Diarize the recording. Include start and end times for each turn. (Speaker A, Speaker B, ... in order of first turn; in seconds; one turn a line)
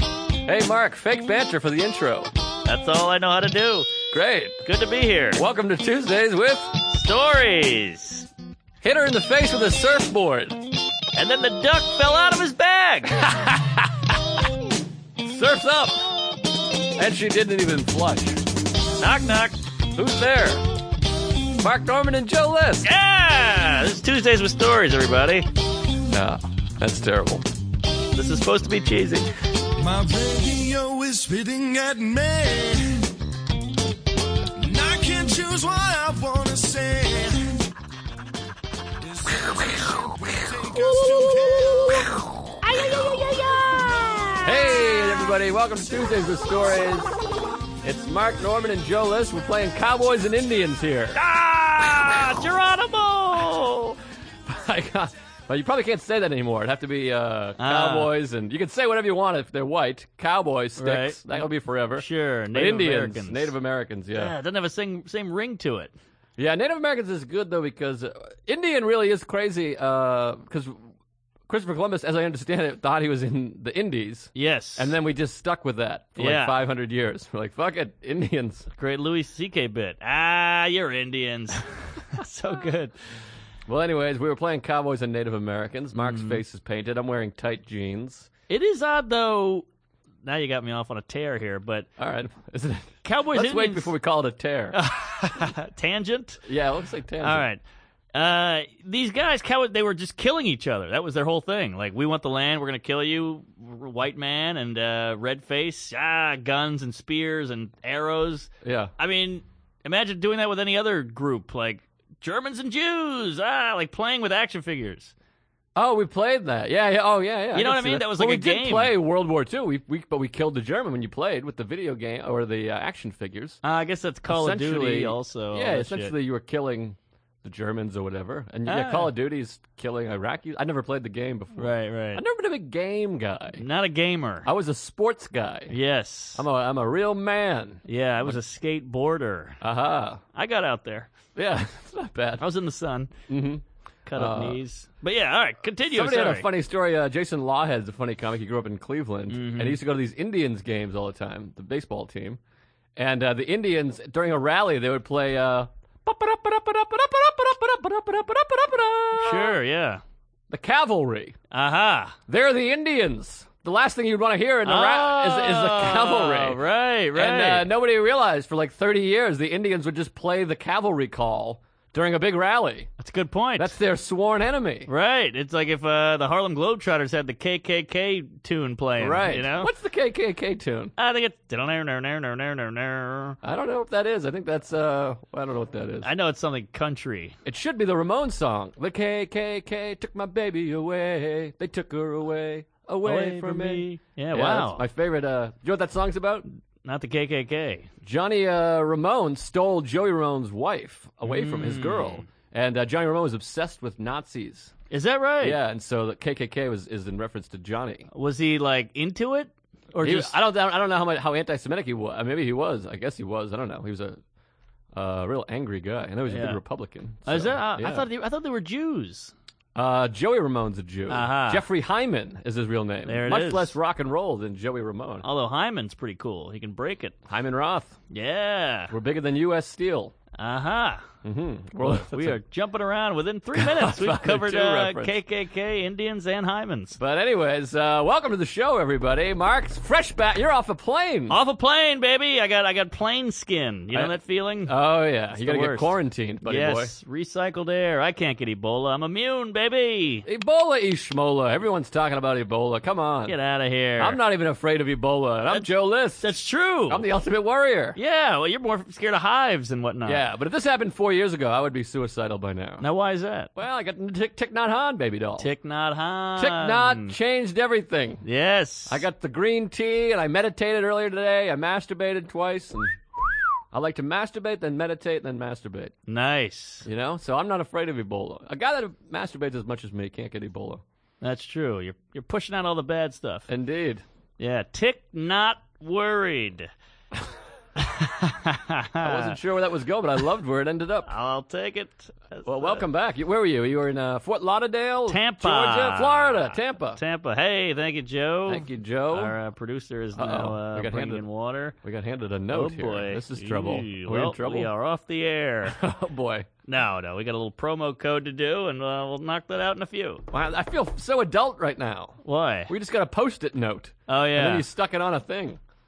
Speaker A: 0.4-2.3
Speaker B: 2.6-4.0
Speaker A: 4.1-4.6
Speaker B: 4.6-5.4
Speaker A: 5.3-6.8
Speaker B: 6.9-8.3
Speaker A: 8.8-10.6
Speaker B: 11.1-13.2
Speaker A: 13.2-13.9
Speaker A: 15.2-16.0
Speaker A: 17.0-18.4
Speaker B: 19.0-19.6
Speaker A: 19.9-20.6
Speaker A: 21.6-22.9
Speaker B: 22.8-25.5
Speaker A: 26.1-27.4
Speaker B: 28.1-29.3
Speaker C: 29.8-33.1
Speaker C: 34.6-37.7
Speaker C: 39.0-42.2
Speaker B: 40.8-42.1
Speaker B: 42.6-45.1
Speaker C: 43.8-44.0
Speaker A: 44.4-47.1
Speaker A: 47.8-51.2
Speaker B: 51.1-54.0
Speaker A: 54.5-64.3
Speaker B: 57.6-58.1
Speaker B: 60.8-61.2
Speaker B: 61.9-63.5
Speaker B: 64.1-65.9
Speaker A: 66.4-70.7
Speaker A: 71.5-78.7
Speaker B: 74.3-75.0
Speaker B: 76.2-76.5
Speaker B: 78.8-82.9
Speaker A: 83.7-88.3
Speaker B: 86.0-86.4
Speaker B: 88.5-89.7
Speaker B: 90.2-91.9
Speaker A: 92.0-94.8
Speaker B: 93.0-93.9
Speaker B: 94.7-96.4
Speaker A: 96.4-97.4
Speaker B: 97.2-97.6
Speaker B: 98.1-115.1
Speaker A: 108.6-108.9
Speaker A: 115.8-123.6
Speaker B: 117.5-118.9
Speaker B: 123.6-126.1
Speaker A: 124.3-133.6
Speaker B: 128.7-129.1
Speaker B: 131.6-132.2
Speaker B: 133.5-134.5
Speaker A: 134.4-135.8
Speaker B: 135.7-136.4
Speaker A: 136.3-138.4
Speaker B: 137.9-139.6
Speaker A: 139.6-140.2
Speaker B: 140.3-141.2
Speaker A: 141.3-142.4
Speaker B: 142.4-143.1
Speaker A: 143.3-144.6
Speaker B: 144.1-146.5
Speaker A: 145.9-152.4
Speaker B: 149.3-149.8
Speaker A: 152.9-159.6
Speaker B: 159.1-160.0
Speaker A: 160.5-161.3
Speaker B: 161.5-162.2
Speaker A: 162.3-166.6
Speaker B: 164.6-167.7
Speaker A: 167.1-172.9
Speaker B: 173.0-173.8
Speaker A: 173.6-174.9
Speaker B: 174.9-179.7
Speaker A: 179.0-180.9
Speaker B: 181.0-183.4
Speaker A: 183.4-186.1
Speaker B: 186.0-187.3
Speaker A: 187.4-196.4
Speaker B: 193.0-194.8
Speaker B: 196.8-197.9
Speaker A: 198.0-204.7
Speaker B: 201.2-202.2
Speaker B: 204.9-205.6
Speaker A: 205.4-208.1
Speaker B: 208.1-210.3
Speaker A: 210.0-214.2
Speaker A: 214.9-218.1
Speaker B: 216.3-216.6
Speaker B: 217.2-219.3
Speaker A: 219.7-225.2
Speaker B: 221.1-221.7
Speaker B: 223.1-223.8
Speaker B: 225.2-227.2
Speaker A: 227.3-228.0
Speaker B: 228.1-228.9
Speaker A: 228.9-230.1
Speaker B: 230.4-231.1
Speaker A: 231.2-232.4
Speaker B: 231.8-237.0
Speaker A: 233.5-235.1
Speaker A: 237.0-241.4
Speaker B: 241.3-244.7
Speaker A: 244.7-246.9
Speaker B: 245.3-250.2
Speaker A: 250.2-253.3
Speaker B: 253.2-254.2
Speaker A: 254.0-256.3
Speaker B: 256.2-257.0
Speaker A: 256.9-258.0
Speaker B: 257.9-260.2
Speaker A: 260.0-262.9
Speaker B: 262.8-263.5
Speaker A: 263.6-265.5
Speaker B: 265.4-267.1
Speaker A: 266.4-268.2
Speaker B: 268.2-269.0
Speaker A: 268.9-273.0
Speaker A: 273.7-275.9
Speaker B: 276.1-276.9
Speaker A: 276.8-280.8
Speaker B: 281.2-283.5
Speaker A: 283.5-284.0
Speaker B: 284.4-286.7
Speaker B: 287.8-289.4
Speaker A: 289.0-291.1
Speaker B: 291.0-292.8
Speaker A: 292.4-297.0
Speaker B: 295.1-301.8
Speaker A: 298.5-299.3
Speaker A: 300.1-301.2
Speaker A: 301.8-304.7
Speaker B: 302.5-305.8
Speaker A: 305.6-306.5
Speaker B: 306.6-310.2
Speaker A: 310.3-315.6
Speaker B: 312.2-312.7
Speaker B: 314.1-314.6